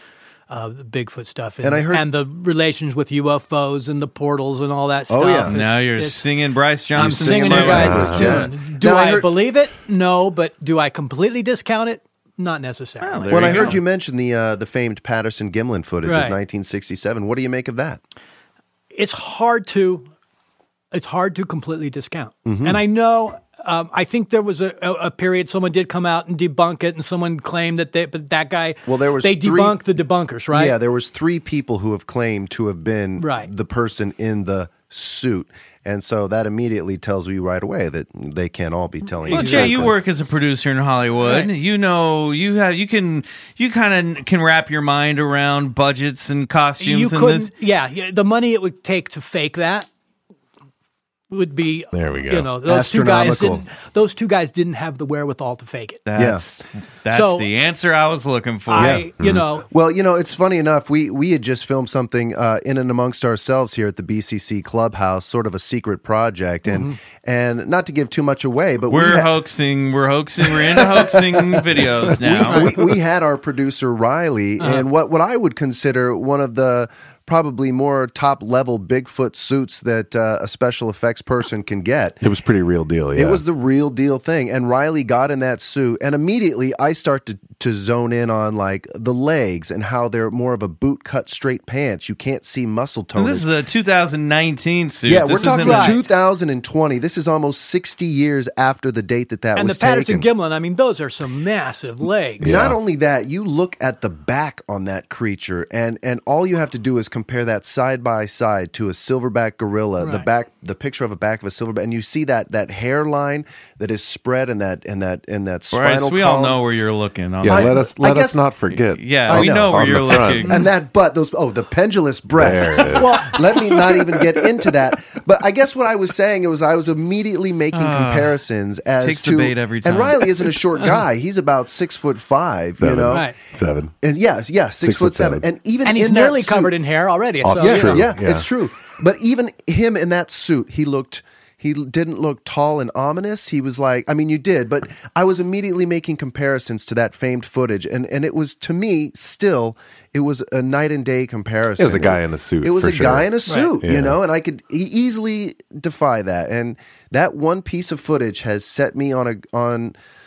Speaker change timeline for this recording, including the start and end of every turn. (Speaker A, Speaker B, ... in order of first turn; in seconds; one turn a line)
Speaker A: 0.5-6.2
Speaker B: 1.6-2.1
Speaker B: 5.1-5.6
Speaker C: 5.5-8.4
Speaker B: 6.9-9.3
Speaker A: 6.9-13.7
Speaker D: 7.7-8.5
Speaker C: 13.0-13.8
Speaker B: 13.3-18.0
Speaker A: 16.0-16.4
Speaker A: 18.9-20.1
Speaker A: 20.9-30.8
Speaker B: 22.4-22.8
Speaker B: 28.9-29.8
Speaker B: 30.5-39.9
Speaker A: 33.2-33.5
Speaker C: 39.3-47.5
Speaker A: 39.3-39.8
Speaker A: 41.2-41.5
Speaker A: 46.8-49.9
Speaker A: 51.3-56.0
Speaker D: 51.9-52.5
Speaker B: 52.6-53.6
Speaker C: 56.0-59.0
Speaker B: 56.1-56.4
Speaker A: 57.1-57.5
Speaker A: 58.7-59.7
Speaker B: 58.7-59.1
Speaker B: 59.7-69.3
Speaker A: 66.7-67.0
Speaker C: 68.9-72.7
Speaker B: 70.5-82.2
Speaker A: 74.6-74.8
Speaker D: 82.2-83.4
Speaker B: 83.1-93.5
Speaker C: 93.2-96.0
Speaker B: 95.1-100.3
Speaker A: 95.4-96.0
Speaker A: 99.5-102.5
Speaker D: 102.4-102.8
Speaker B: 102.4-116.6
Speaker A: 110.0-110.2
Speaker C: 115.7-117.8
Speaker D: 117.4-120.5
Speaker B: 117.4-118.4
Speaker C: 118.7-120.6
Speaker B: 119.3-133.3
Speaker D: 122.4-124.7
Speaker A: 122.8-123.4
Speaker C: 127.7-128.3
Speaker C: 129.0-130.6
Speaker D: 132.8-133.9
Speaker A: 133.1-133.3
Speaker B: 134.0-136.7
Speaker D: 134.8-135.4
Speaker A: 135.8-138.0
Speaker D: 137.4-138.5
Speaker B: 137.6-159.9
Speaker D: 151.8-154.2